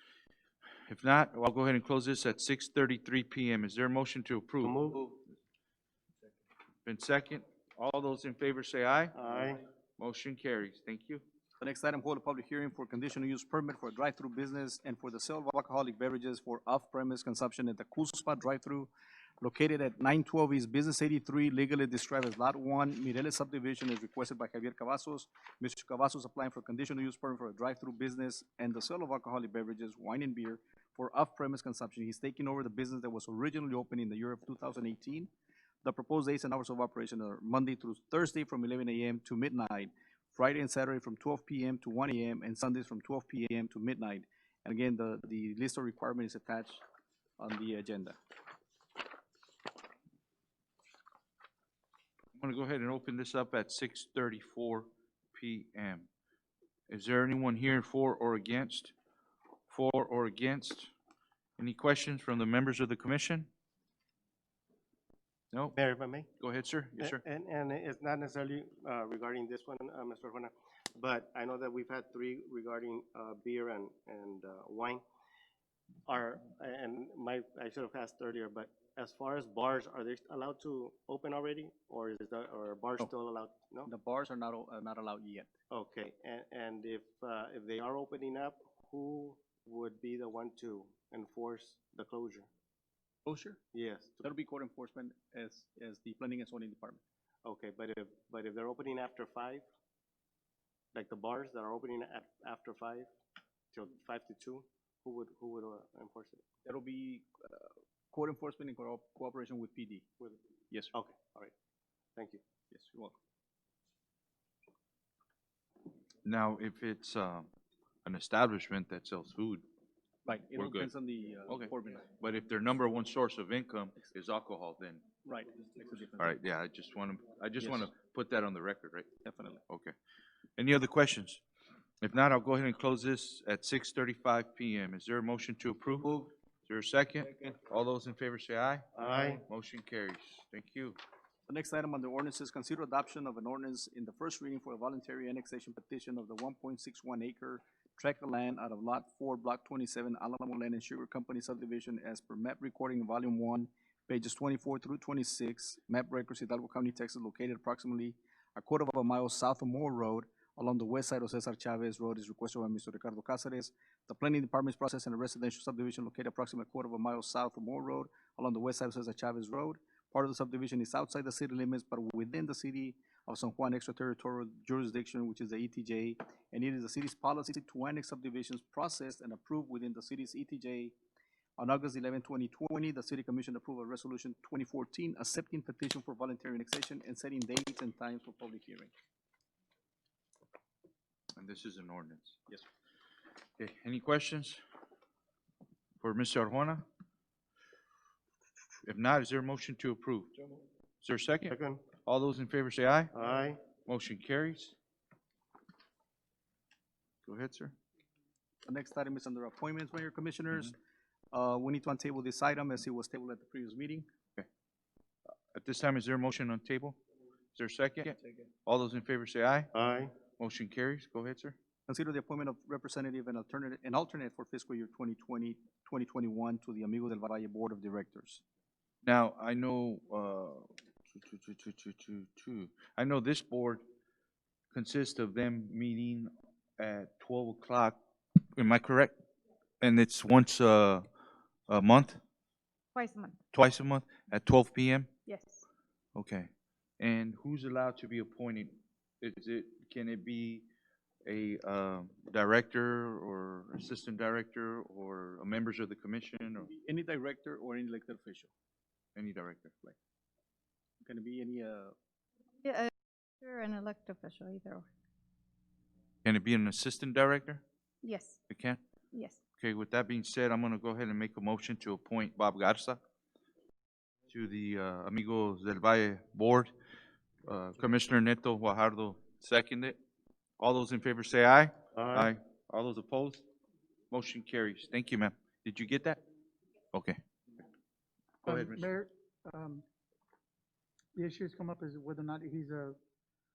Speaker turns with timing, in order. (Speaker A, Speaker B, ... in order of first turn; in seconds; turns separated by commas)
Speaker A: 0.9-5.1, Speaker B: 4.6-5.0, Speaker A: 6.8-9.2, Speaker B: 9.1-9.6, Speaker A: 10.0-11.2, Speaker C: 11.6-35.3, Speaker C: 35.8-46.8, Speaker C: 47.4-48.2, Speaker A: 52.4-56.1, Speaker A: 56.9-58.9, Speaker A: 59.7-60.9, Speaker A: 61.6-63.5, Speaker B: 65.7-66.3, Speaker A: 66.4-67.2, Speaker B: 67.0-75.0, Speaker B: 76.1-83.9, Speaker C: 83.9-85.5, Speaker B: 85.7-92.5, Speaker C: 93.2-93.6, Speaker B: 93.7-94.3, Speaker C: 94.2-97.0, Speaker B: 97.5-99.6, Speaker B: 100.9-103.1, Speaker B: 103.7-106.4, Speaker C: 106.7-110.1, Speaker B: 110.9-111.5, Speaker B: 112.2-112.4, Speaker C: 112.7-113.1, Speaker A: 116.2-117.5, Speaker A: 118.0-119.6, Speaker C: 120.2-122.0, Speaker A: 120.5-120.9, Speaker A: 121.5-125.0, Speaker C: 125.2-126.3, Speaker A: 126.2-129.1, Speaker C: 127.6-127.9, Speaker C: 129.2-129.6, Speaker A: 129.7-129.9, Speaker A: 130.6-131.4, Speaker A: 132.0-136.1, Speaker A: 136.7-141.0, Speaker B: 138.9-139.4, Speaker C: 141.5-180.9, Speaker C: 181.6-188.9, Speaker A: 191.4-192.4, Speaker A: 193.6-194.6, Speaker A: 196.0-196.8, Speaker A: 198.8-200.3, Speaker A: 201.0-203.1, Speaker B: 201.5-201.8, Speaker B: 203.1-203.6, Speaker A: 203.8-204.8, Speaker A: 207.3-207.7, Speaker C: 208.7-210.8, Speaker C: 211.3-214.1, Speaker A: 215.5-217.0, Speaker A: 217.6-219.7, Speaker B: 219.7-220.1, Speaker A: 220.4-221.6, Speaker C: 221.9-228.4, Speaker A: 229.0-233.8, Speaker A: 234.7-238.0, Speaker A: 238.6-239.1, Speaker A: 239.8-241.1, Speaker A: 241.7-242.2, Speaker D: 242.9-243.4, Speaker A: 243.5-245.1, Speaker D: 245.3-245.6, Speaker A: 246.2-250.7, Speaker A: 251.3-256.7, Speaker C: 256.7-258.5, Speaker A: 259.2-259.9, Speaker C: 261.0-261.9, Speaker D: 262.6-264.9, Speaker A: 266.2-267.6, Speaker D: 268.0-268.4, Speaker A: 268.5-268.8, Speaker A: 269.6-273.0, Speaker A: 274.3-276.7, Speaker A: 277.4-280.0, Speaker A: 280.6-283.4, Speaker B: 281.9-282.3, Speaker A: 284.1-286.2, Speaker A: 286.9-287.2, Speaker A: 288.5-288.9, Speaker E: 288.5-289.8, Speaker E: 291.2-293.0